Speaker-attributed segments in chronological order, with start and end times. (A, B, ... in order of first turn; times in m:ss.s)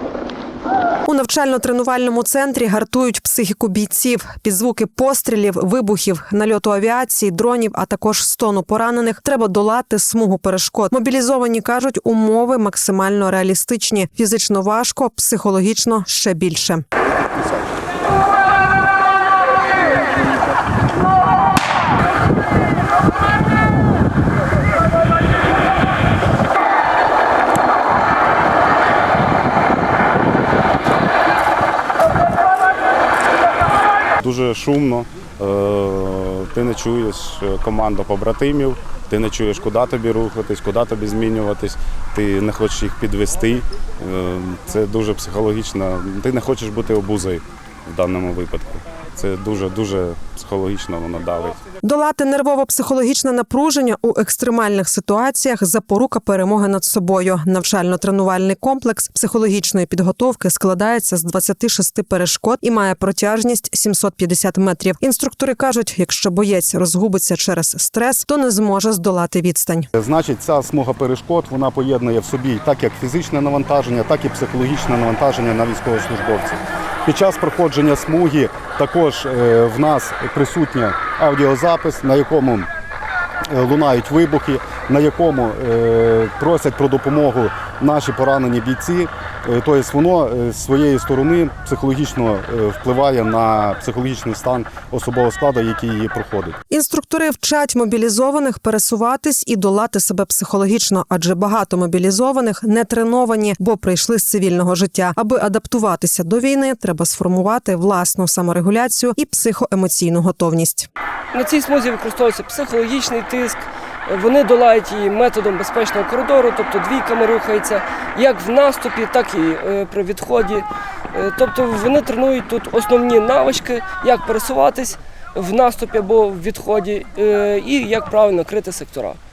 0:01.1-0:16.8 A
0:34.2-0:51.6 B
0:51.8-1:09.9 A
1:10.0-1:22.7 B
1:23.5-1:36.6 B
1:36.7-1:50.9 A
1:51.3-2:09.2 C